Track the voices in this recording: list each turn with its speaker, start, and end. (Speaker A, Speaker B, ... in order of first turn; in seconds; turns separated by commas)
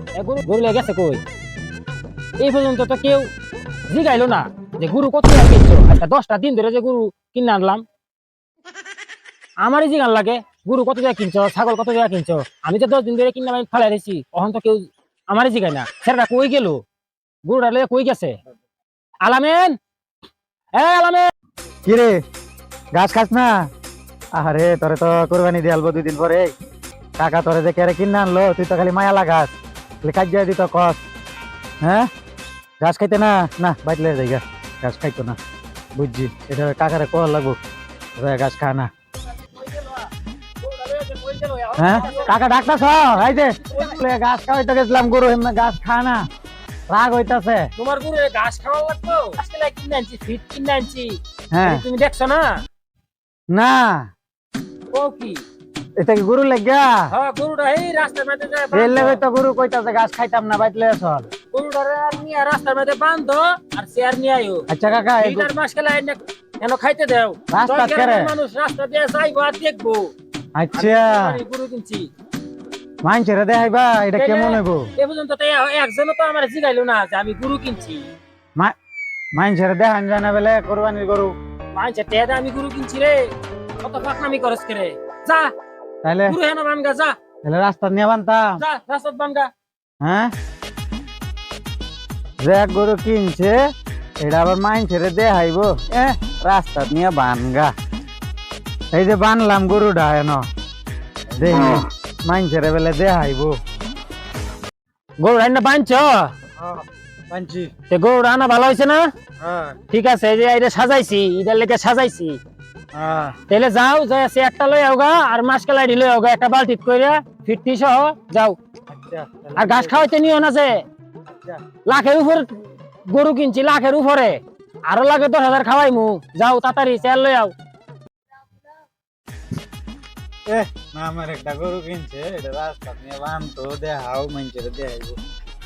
Speaker A: 0.2-1.2, Speaker A: 2.4-3.3, Speaker A: 3.9-7.8, Speaker A: 9.6-16.8, Speaker A: 17.4-18.4, Speaker A: 19.2-19.8, Speaker A: 20.8-21.3, Speaker B: 21.9-22.2, Speaker B: 22.9-23.7, Speaker B: 24.4-26.5, Speaker B: 27.2-29.5, Speaker B: 30.0-31.0, Speaker B: 31.8-32.1, Speaker B: 32.8-35.4, Speaker B: 36.0-37.6, Speaker B: 38.2-38.9, Speaker A: 39.4-40.1, Speaker A: 40.6-42.4, Speaker B: 41.8-46.2, Speaker A: 43.6-44.0, Speaker B: 46.9-47.7, Speaker A: 47.8-52.6, Speaker B: 51.5-51.8, Speaker B: 53.5-54.1, Speaker A: 54.9-55.4, Speaker B: 56.0-57.0, Speaker A: 57.1-59.2, Speaker B: 58.7-61.3, Speaker A: 61.5-70.1, Speaker B: 64.7-65.5, Speaker B: 67.5-68.3, Speaker B: 70.5-71.4, Speaker A: 70.7-72.1, Speaker B: 73.0-74.9, Speaker A: 74.2-78.1, Speaker B: 79.4-81.3, Speaker A: 81.8-83.3, Speaker A: 83.8-85.5, Speaker B: 86.0-86.4, Speaker A: 86.3-87.2, Speaker B: 87.4-88.6, Speaker A: 88.6-89.5, Speaker B: 90.0-90.3, Speaker B: 92.4-93.6, Speaker B: 94.2-97.7, Speaker B: 98.9-100.4, Speaker B: 101.3-103.6, Speaker A: 105.2-106.3, Speaker B: 106.6-107.7, Speaker A: 107.9-109.1, Speaker B: 109.4-109.8, Speaker A: 109.9-112.4, Speaker B: 113.0-113.4, Speaker A: 113.5-118.6, Speaker B: 118.9-120.1, Speaker A: 119.6-120.8, Speaker B: 121.3-121.6, Speaker A: 121.9-127.5, Speaker B: 130.5-135.2